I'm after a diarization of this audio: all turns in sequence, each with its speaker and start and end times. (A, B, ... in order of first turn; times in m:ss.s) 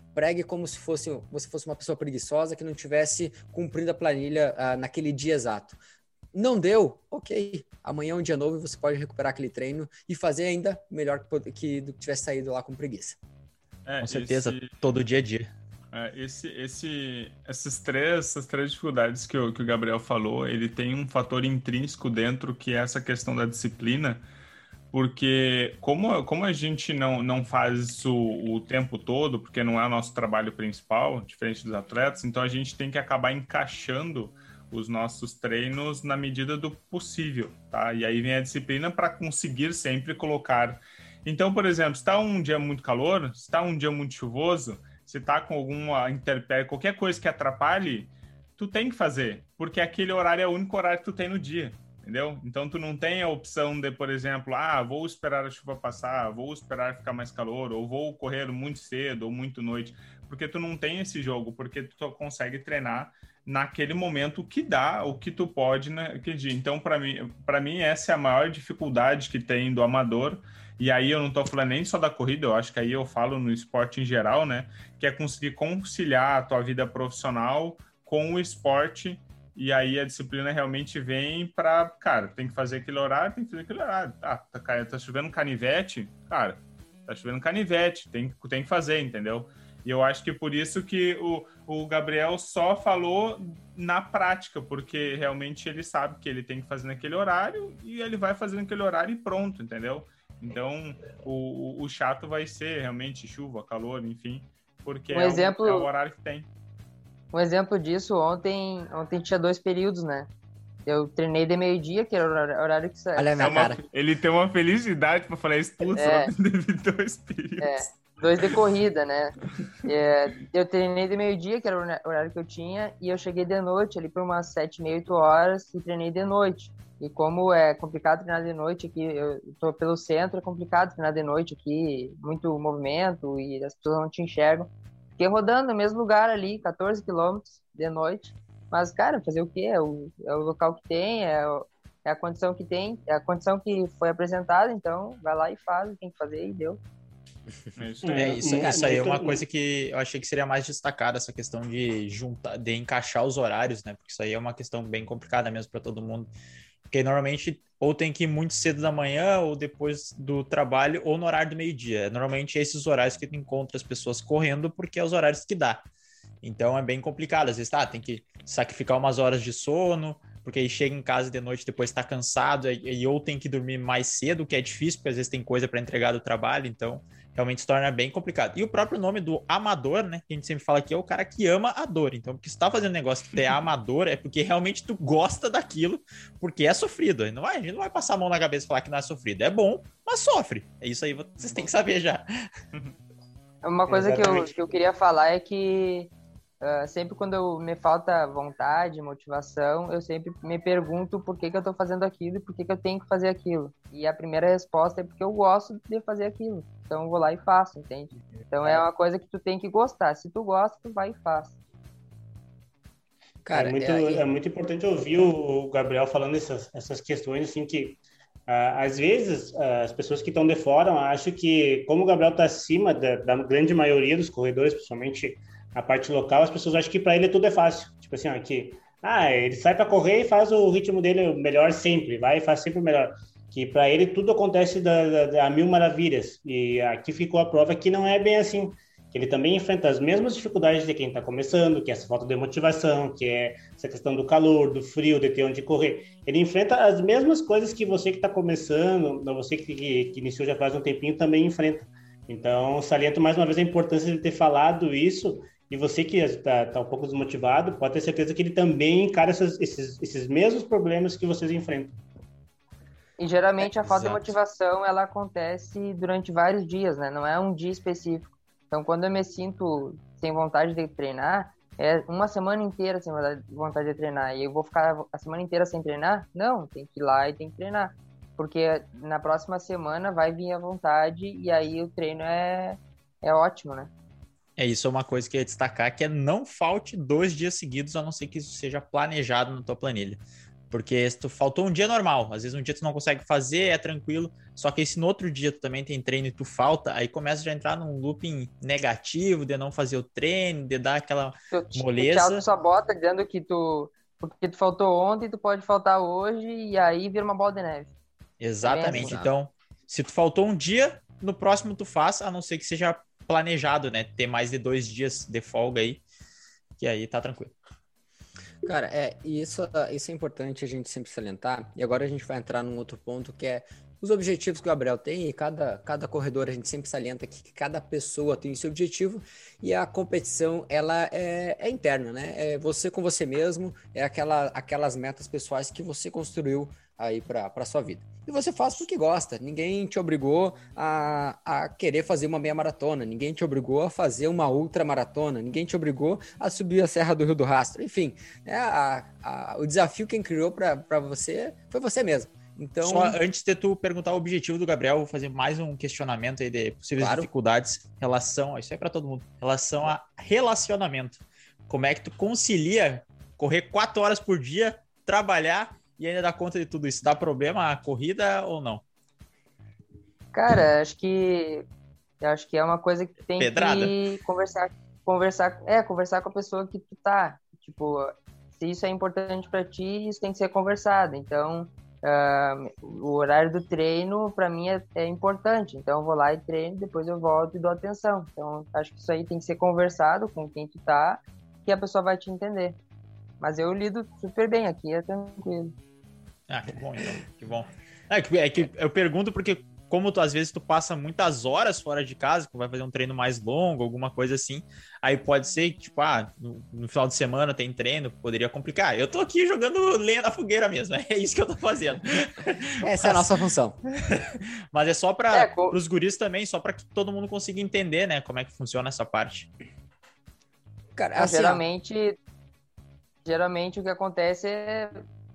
0:00.1-0:05.8 A
0:06.3-0:13.2 A
0:13.8-0:14.8 B
0:14.0-0:15.5 C
0:15.9-0:24.2 B
0:24.9-1:46.5 B
1:45.1-1:45.9 D
1:47.3-1:50.3 D
1:50.8-1:53.6 D
1:53.2-1:53.8 A
1:53.4-1:57.9 B
1:55.9-1:56.3 D
1:57.6-2:26.8 D
2:27.8-2:28.6 B
2:28.0-2:29.4 E
2:28.2-2:36.3 C
2:36.9-2:45.8 C
2:46.4-3:12.2 C
3:13.6-3:31.6 D
3:13.9-3:14.5 E
3:33.4-3:34.2 A
3:33.5-4:22.0 E
4:23.2-4:43.9 D
4:23.6-4:24.3 C
4:44.6-5:02.4 C
5:01.5-5:07.9 D
5:08.4-5:16.0 C
5:08.6-5:09.1 D
5:08.9-5:09.3 A
5:16.8-5:17.5 C
5:18.6-5:53.2 A
5:52.8-6:08.8 C
5:57.0-5:57.3 A
6:10.3-6:11.6 D
6:12.2-6:32.8 D
6:13.4-6:13.9 C
6:33.4-6:35.7 D
6:36.5-6:53.3 C
6:52.8-6:53.8 A
6:54.1-6:59.5 C
6:55.3-6:55.8 D
7:01.0-7:01.6 A
7:01.1-7:02.2 D
7:03.2-7:05.0 D